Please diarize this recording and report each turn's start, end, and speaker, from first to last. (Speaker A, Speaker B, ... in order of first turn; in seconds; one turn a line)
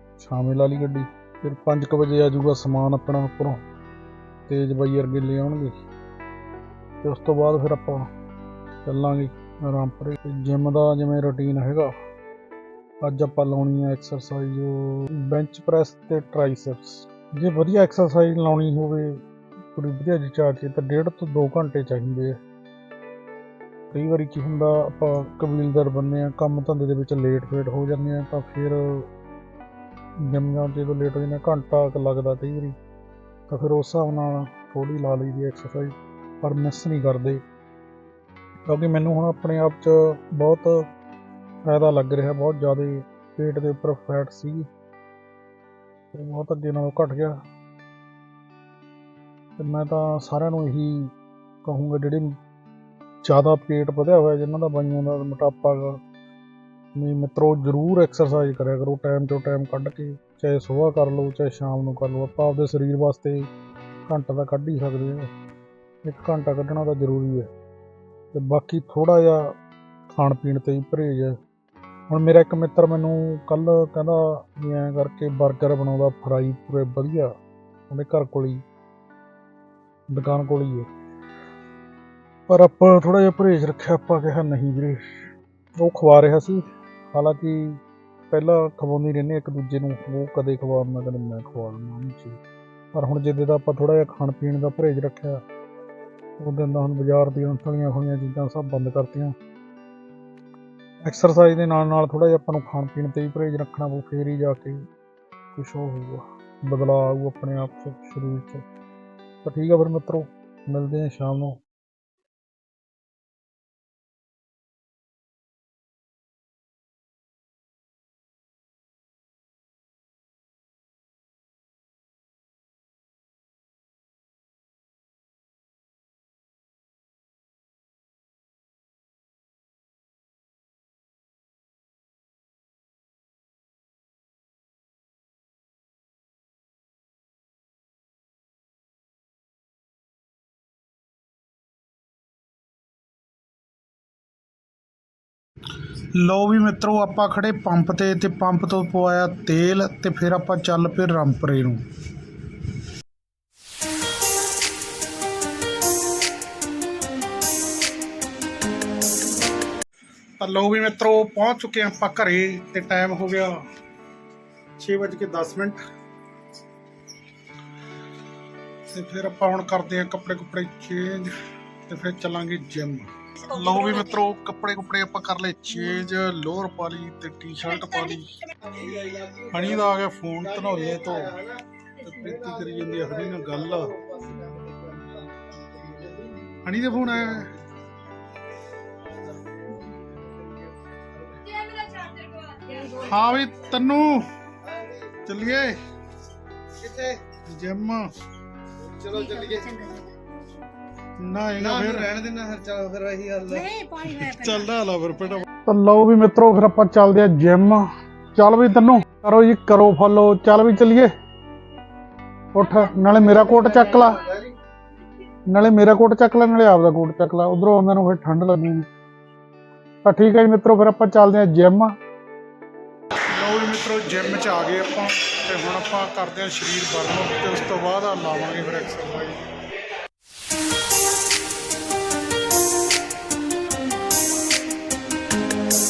Speaker A: 0.2-3.6
Speaker A: 4.5-5.8
Speaker A: 7.0-8.1
Speaker A: 8.8-11.9
Speaker A: 13.0-19.2
Speaker A: 19.7-22.4
Speaker A: 23.9-29.1
Speaker A: 30.2-32.8
Speaker A: 33.5-37.4
Speaker A: 38.7-40.9
Speaker A: 41.7-44.7
Speaker A: 46.1-47.4
Speaker A: 49.6-52.3
Speaker A: 53.2-56.0
Speaker A: 56.9-63.5
Speaker A: 64.1-65.3
Speaker A: 66.0-67.5
Speaker A: 68.3-69.5
Speaker A: 70.1-71.4
Speaker A: 72.1-77.3
Speaker A: 77.9-78.6
Speaker A: 80.1-80.9
Speaker A: 82.5-92.4
Speaker A: 92.9-95.4
Speaker A: 96.4-99.3
Speaker A: 101.0-104.8
Speaker A: 105.5-108.6
Speaker A: 109.4-111.6
Speaker A: 146.1-151.8
Speaker A: 160.4-163.6
Speaker A: 164.8-165.8
Speaker A: 168.9-171.4
Speaker A: 171.9-178.4
Speaker B: 178.7-179.6
Speaker A: 179.4-181.4
Speaker B: 180.6-181.6
Speaker A: 181.9-183.9
Speaker B: 182.2-187.4
Speaker A: 186.6-187.5
Speaker B: 189.1-191.9
Speaker C: 191.9-192.4
Speaker A: 192.8-194.3
Speaker A: 195.2-195.8
Speaker B: 196.8-197.2
Speaker A: 197.4-198.1
Speaker B: 198.8-199.8
Speaker C: 199.2-200.1
Speaker A: 201.2-202.1
Speaker B: 201.8-203.7
Speaker C: 203.6-204.6
Speaker A: 204.0-211.1
Speaker A: 212.5-214.2
Speaker A: 215.5-218.9
Speaker A: 220.0-221.9
Speaker A: 223.3-229.4